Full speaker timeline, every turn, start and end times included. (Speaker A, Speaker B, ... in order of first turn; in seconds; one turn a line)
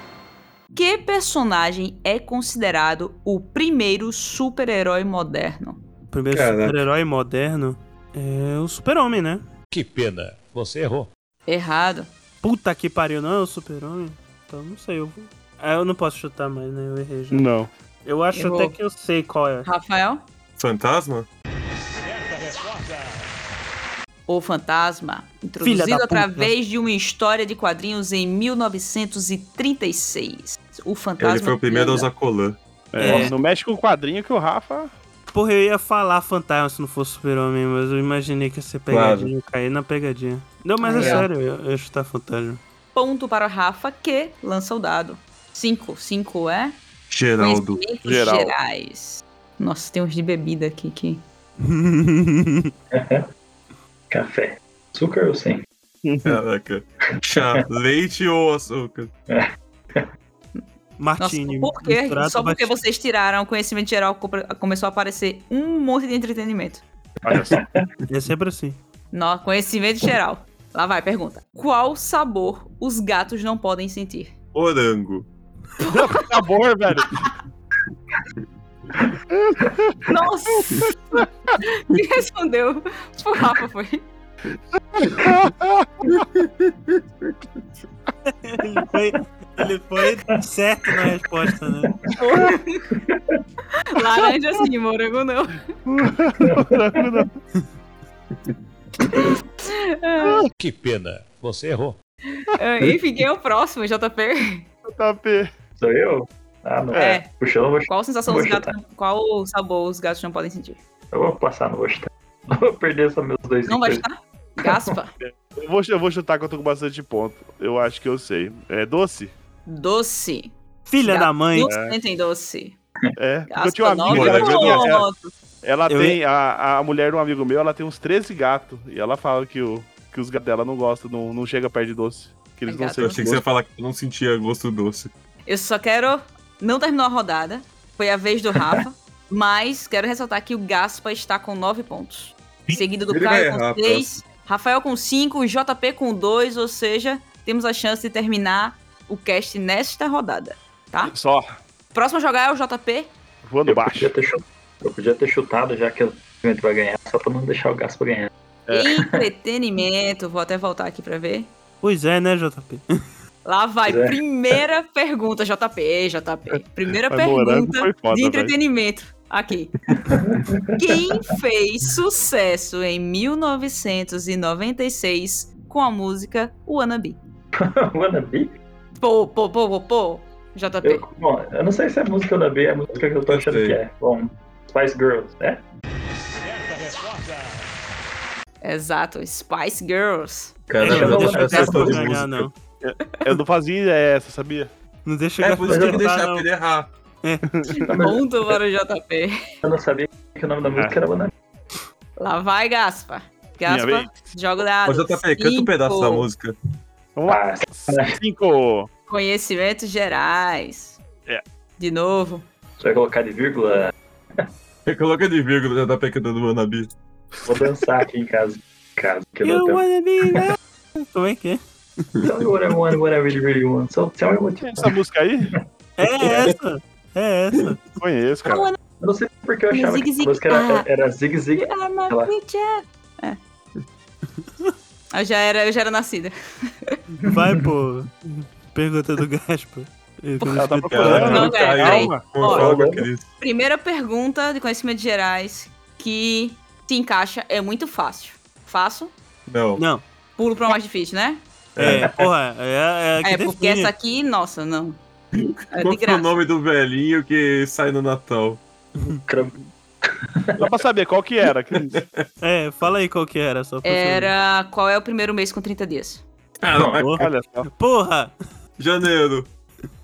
Speaker A: 0.7-5.8
Speaker B: 6.1-9.4
Speaker C: 6.3-6.8
Speaker D: 9.7-11.1
Speaker A: 11.5-12.1
Speaker B: 12.4-17.5
Speaker E: 17.3-17.7
Speaker B: 18.0-19.7
Speaker A: 18.3-18.7
Speaker A: 19.6-20.2
Speaker C: 20.6-21.3
Speaker A: 24.3-32.1
Speaker B: 25.6-26.5
Speaker C: 31.2-32.6
Speaker E: 32.9-34.9
Speaker B: 33.0-33.3
Speaker B: 35.3-42.6
Speaker C: 38.9-39.3
Speaker A: 40.8-41.3
Speaker E: 41.0-41.2
Speaker A: 42.9-46.8
Speaker C: 47.1-47.8
Speaker A: 47.4-51.2
Speaker E: 48.0-48.5
Speaker B: 51.6-52.7
Speaker F: 52.9-53.2
Speaker F: 54.1-55.6
Speaker E: 56.0-56.4
Speaker C: 56.2-59.1
Speaker F: 57.3-57.6
Speaker F: 59.3-60.1
Speaker B: 61.0-62.7
Speaker A: 61.2-66.8
Speaker E: 67.2-67.6
Speaker F: 67.3-67.9
Speaker B: 68.1-68.8
Speaker A: 69.1-74.3
Speaker C: 74.5-75.3
Speaker A: 75.8-76.2
Speaker E: 75.8-77.3
Speaker E: 79.3-80.0
Speaker A: 80.1-84.1
Speaker E: 80.6-81.2
Speaker E: 84.9-86.2
Speaker C: 86.1-87.3
Speaker B: 88.3-91.9
Speaker F: 92.0-93.4
Speaker A: 92.2-92.9
Speaker A: 93.9-95.7
Speaker E: 95.8-97.3
Speaker F: 96.4-97.2
Speaker A: 99.1-100.5
Speaker D: 100.5-102.0
Speaker A: 102.4-104.7
Speaker E: 104.8-105.5
Speaker F: 105.8-108.7
Speaker E: 106.9-107.2
Speaker A: 106.9-107.3
Speaker A: 107.9-110.8
Speaker F: 111.1-114.0
Speaker A: 113.7-115.1
Speaker E: 115.2-119.3
Speaker A: 119.7-122.8
Speaker B: 120.9-121.7
Speaker E: 121.6-122.0
Speaker E: 123.2-125.1
Speaker A: 123.5-125.3
Speaker C: 124.1-124.9
Speaker E: 125.6-133.4
Speaker B: 125.9-126.2
Speaker A: 132.7-133.3
Speaker C: 133.0-135.1
Speaker A: 135.5-151.1
Speaker C: 143.1-144.1
Speaker E: 151.1-151.5
Speaker A: 151.9-153.1
Speaker E: 153.4-154.1
Speaker F: 153.7-158.3
Speaker E: 158.7-158.9
Speaker A: 158.7-161.5
Speaker F: 158.9-159.2
Speaker B: 161.8-162.8
Speaker A: 163.4-169.7
Speaker F: 163.8-164.2
Speaker E: 167.1-168.5
Speaker F: 170.0-171.0
Speaker A: 170.8-177.2
Speaker F: 177.6-178.5
Speaker A: 179.0-181.0
Speaker F: 180.8-185.6
Speaker C: 183.2-183.8
Speaker A: 188.6-190.6
Speaker C: 190.7-192.5
Speaker F: 190.7-192.1
Speaker B: 190.8-192.5
Speaker E: 192.8-194.7
Speaker B: 195.0-196.5
Speaker C: 195.4-196.9
Speaker F: 195.7-196.0
Speaker B: 197.2-197.5
Speaker E: 197.5-197.9
Speaker F: 197.7-198.5
Speaker A: 198.0-199.4
Speaker F: 199.6-201.3
Speaker A: 202.2-206.3
Speaker E: 203.7-204.3
Speaker C: 204.8-206.6
Speaker E: 207.2-208.9
Speaker F: 207.3-208.2
Speaker A: 209.1-211.0
Speaker A: 211.8-212.5
Speaker F: 212.8-214.4
Speaker C: 214.8-216.9
Speaker F: 217.4-219.8
Speaker B: 219.4-221.6
Speaker F: 222.2-224.9
Speaker E: 224.6-225.5
Speaker B: 226.0-227.8
Speaker C: 226.2-226.5
Speaker E: 228.0-228.7
Speaker A: 228.4-228.8
Speaker F: 229.0-232.3
Speaker A: 229.7-230.9
Speaker A: 231.6-233.4
Speaker A: 235.1-237.0
Speaker B: 237.2-241.4
Speaker F: 237.3-237.5
Speaker A: 240.4-242.7
Speaker E: 240.6-242.2
Speaker C: 240.9-243.3
Speaker F: 242.4-243.1
Speaker A: 243.4-249.1
Speaker C: 249.5-249.8
Speaker B: 249.8-250.0
Speaker A: 250.4-251.4
Speaker C: 251.8-252.2
Speaker B: 251.8-253.9
Speaker A: 253.2-255.0
Speaker C: 255.3-258.6
Speaker A: 255.7-256.3
Speaker F: 259.3-260.7
Speaker E: 260.6-261.9
Speaker C: 261.9-262.2
Speaker B: 262.4-264.3
Speaker A: 263.8-266.2
Speaker C: 266.6-267.1
Speaker F: 266.7-267.0
Speaker B: 267.0-268.3
Speaker E: 267.2-267.7
Speaker C: 268.8-269.5